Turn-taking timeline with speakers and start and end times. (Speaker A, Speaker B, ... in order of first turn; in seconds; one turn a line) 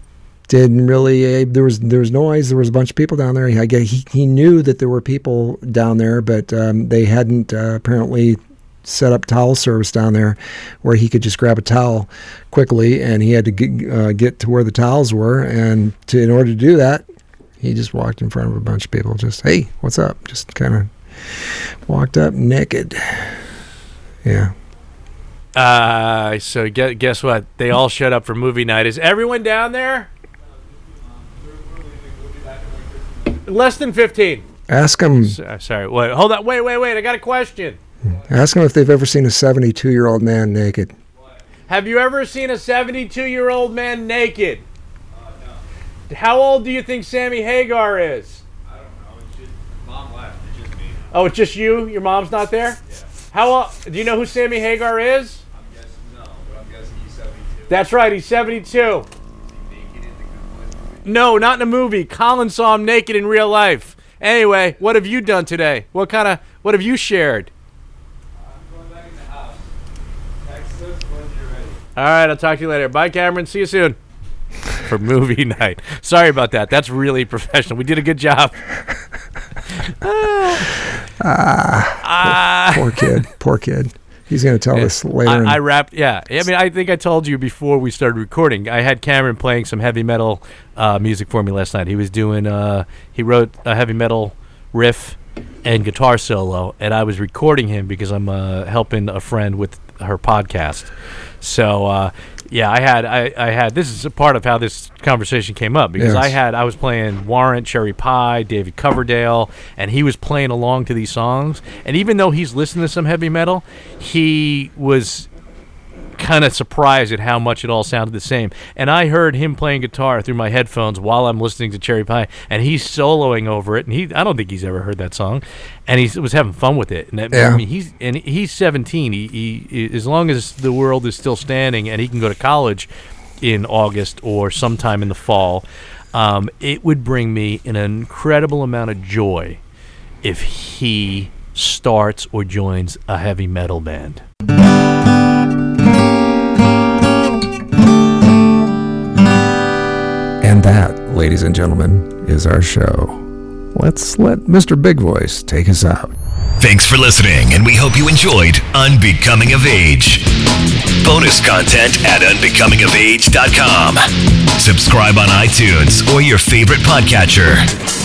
Speaker A: 0.5-17.0
Speaker A: 17.6-23.4
Speaker A: 24.2-24.5
Speaker B: 25.5-30.1
Speaker C: 30.4-33.5
Speaker B: 33.4-34.5
Speaker A: 34.7-35.4
Speaker B: 35.1-37.8
Speaker C: 38.0-38.4
Speaker A: 38.1-40.9
Speaker C: 41.1-41.4
Speaker B: 41.7-44.6
Speaker C: 45.1-45.6
Speaker B: 46.1-48.4
Speaker C: 48.6-51.2
Speaker B: 51.1-52.8
Speaker C: 52.8-53.1
Speaker B: 53.3-55.4
Speaker C: 55.5-57.9
Speaker B: 57.7-59.1
Speaker C: 59.3-61.3
Speaker B: 61.0-67.5
Speaker C: 68.3-69.7
Speaker C: 70.4-71.8
Speaker B: 72.0-74.0
Speaker B: 74.8-78.6
Speaker B: 79.8-80.8
Speaker A: 81.2-85.6
Speaker B: 82.0-83.2
Speaker B: 84.7-115.3
Speaker A: 106.0-106.4
Speaker B: 116.2-132.9
Speaker A: 127.3-127.6
Speaker B: 133.4-139.6
Speaker B: 140.2-144.2
Speaker A: 150.4-156.1
Speaker D: 156.6-160.3
Speaker D: 161.0-164.0
Speaker D: 164.6-167.7